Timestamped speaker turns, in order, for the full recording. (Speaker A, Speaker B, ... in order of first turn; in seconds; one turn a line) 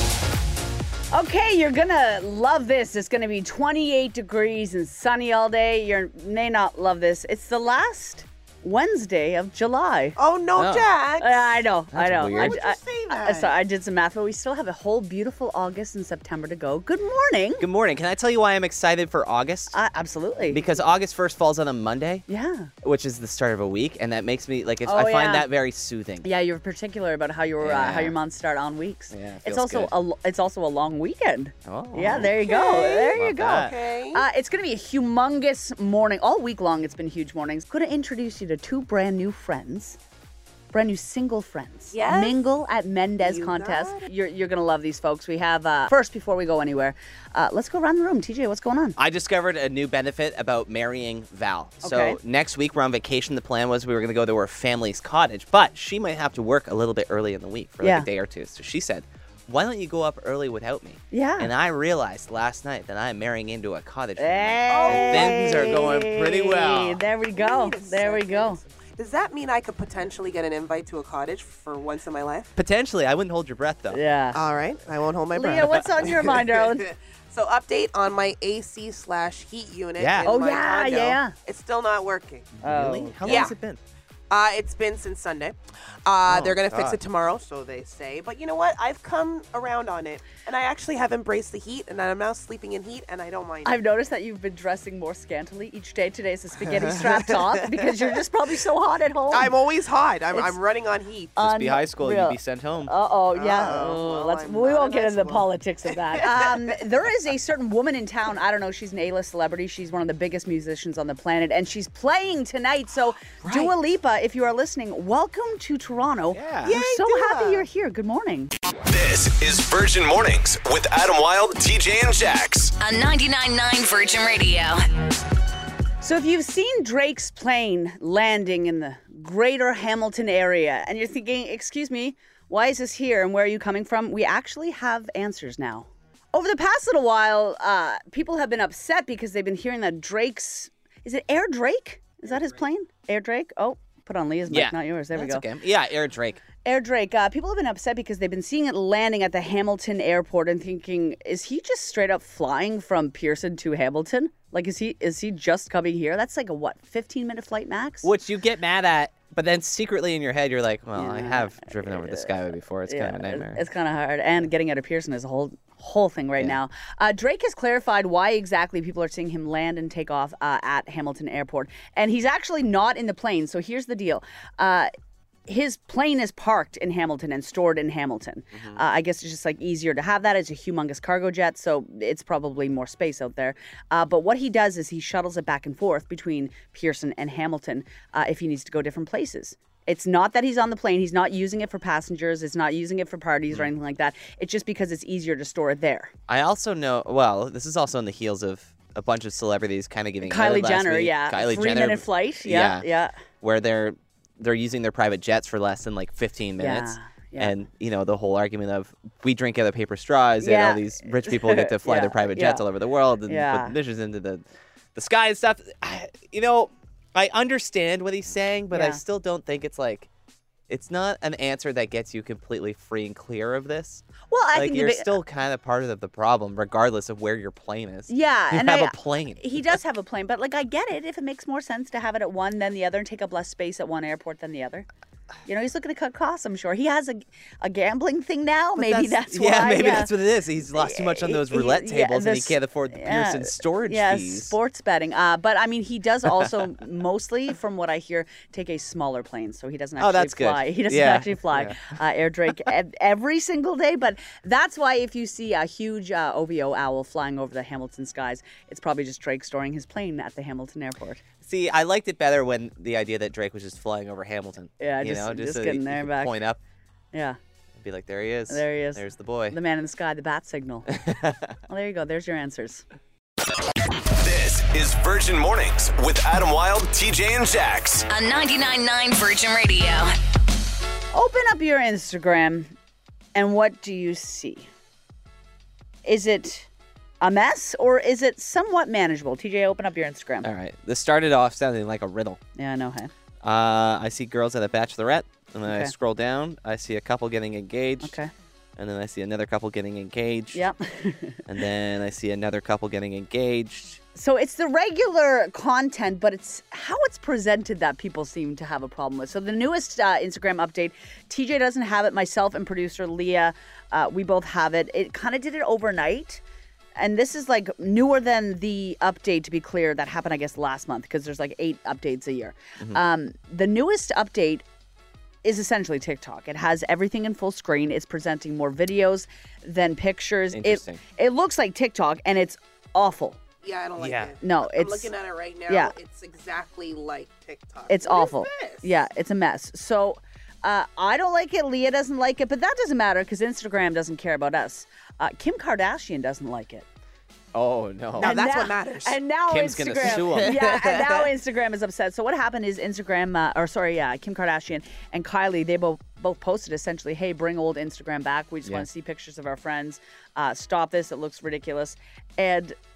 Speaker A: 1.1-10.2
Speaker B: 10.2-11.7
Speaker C: 10.6-10.9
Speaker A: 11.2-17.6
Speaker C: 11.9-12.6
Speaker B: 12.2-13.5
Speaker C: 17.6-19.7
Speaker A: 19.7-20.6
Speaker C: 20.5-22.3
Speaker A: 22.3-22.7
Speaker C: 22.8-26.3
Speaker A: 24.9-25.5
Speaker A: 26.2-40.0
Speaker C: 27.6-28.2
Speaker C: 29.1-29.9
Speaker C: 31.6-32.5
Speaker B: 32.3-34.2
Speaker C: 33.1-33.8
Speaker A: 40.7-49.0
Speaker B: 41.9-42.4
Speaker B: 43.2-44.1
Speaker C: 49.0-67.0
Speaker A: 51.8-52.2
Speaker A: 57.8-58.1
Speaker A: 61.1-61.5
Speaker A: 64.2-68.6
Speaker B: 64.7-65.9
Speaker B: 67.3-72.5
Speaker C: 72.6-74.0
Speaker A: 73.9-74.4
Speaker B: 74.3-83.5
Speaker A: 75.3-76.8
Speaker C: 80.0-80.3
Speaker A: 80.2-81.3
Speaker C: 82.6-83.8
Speaker A: 82.6-83.5
Speaker B: 84.3-93.8
Speaker C: 86.3-87.0
Speaker A: 93.7-99.5
Speaker B: 96.7-97.9
Speaker B: 99.3-101.4
Speaker A: 101.4-118.5
Speaker C: 101.4-102.9
Speaker B: 103.3-106.7
Speaker B: 113.4-113.7
Speaker C: 116.3-116.8
Speaker B: 116.7-117.7
Speaker D: 118.9-122.7
Speaker E: 122.8-124.8
Speaker A: 126.0-145.4
Speaker C: 144.5-146.4
Speaker A: 146.7-158.1
Speaker C: 158.0-163.6
Speaker A: 160.9-162.3
Speaker A: 162.9-174.9
Speaker A: 175.5-196.1
Speaker C: 178.5-178.8
Speaker C: 196.3-202.9
Speaker A: 200.2-203.1
Speaker C: 203.4-220.1
Speaker A: 206.6-207.5
Speaker A: 210.4-212.6
Speaker A: 213.3-213.8
Speaker A: 218.7-219.0
Speaker C: 220.7-229.6
Speaker A: 224.3-225.1
Speaker A: 228.1-234.9
Speaker A: 235.5-240.1
Speaker C: 238.8-244.6
Speaker A: 240.8-261.2
Speaker C: 250.0-251.9
Speaker C: 261.4-266.6
Speaker A: 264.8-266.4
Speaker A: 267.1-267.4
Speaker C: 267.8-269.6
Speaker A: 268.5-270.9
Speaker C: 270.9-271.5
Speaker A: 271.7-272.8
Speaker D: 274.2-278.1
Speaker E: 278.1-280.1
Speaker A: 281.1-282.7
Speaker A: 283.4-284.7
Speaker A: 286.1-286.7
Speaker A: 287.2-290.5
Speaker C: 290.4-292.4
Speaker A: 292.6-293.1
Speaker C: 293.4-298.2
Speaker A: 295.7-295.9
Speaker A: 298.0-298.3
Speaker C: 298.8-300.6
Speaker A: 300.5-301.4
Speaker C: 301.5-304.0
Speaker A: 304.1-316.4
Speaker A: 317.0-324.6
Speaker A: 325.4-333.4
Speaker C: 330.5-331.0
Speaker B: 333.6-338.9
Speaker C: 334.0-334.4
Speaker A: 334.4-335.1
Speaker A: 335.7-335.9
Speaker A: 337.9-346.9
Speaker C: 347.5-348.4
Speaker B: 348.2-349.2
Speaker A: 348.2-362.8
Speaker C: 349.5-351.1
Speaker B: 350.0-351.2